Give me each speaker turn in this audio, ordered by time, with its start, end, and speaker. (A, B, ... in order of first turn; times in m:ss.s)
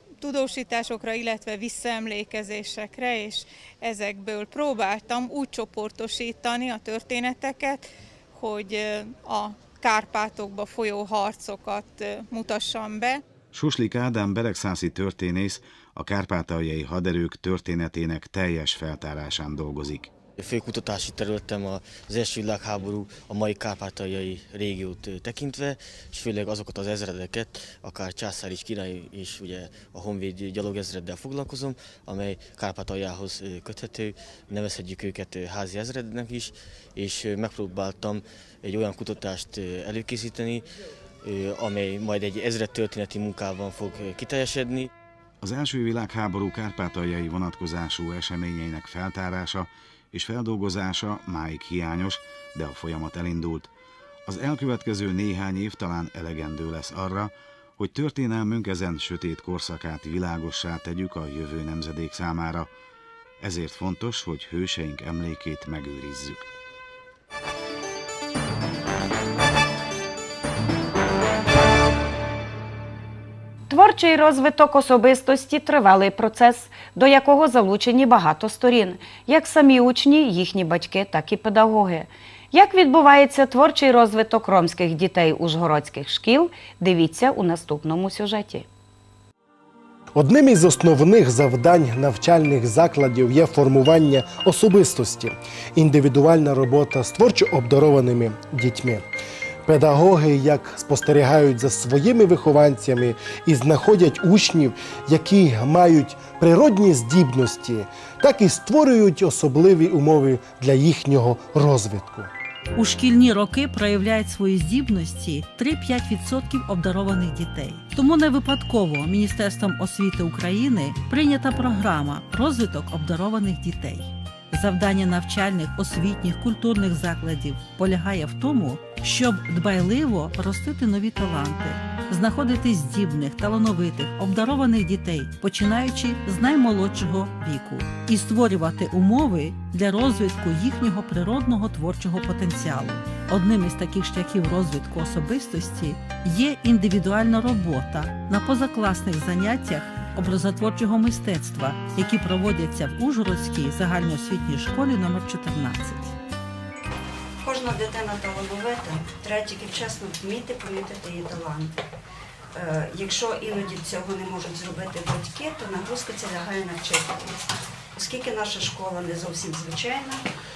0:00.2-0:13.2 A
0:13.5-0:20.1 B
0:20.4-0:40.7 C
0:41.2-0:44.9 C
0:45.4-0:53.7 B
0:54.3-1:02.7 B
1:03.4-1:06.5 B
1:13.7-1:28.7 D
1:30.2-1:39.1 E
1:39.6-1:52.3 E
1:52.8-2:36.1 F
2:37.4-2:41.8 G
2:42.5-2:50.2 G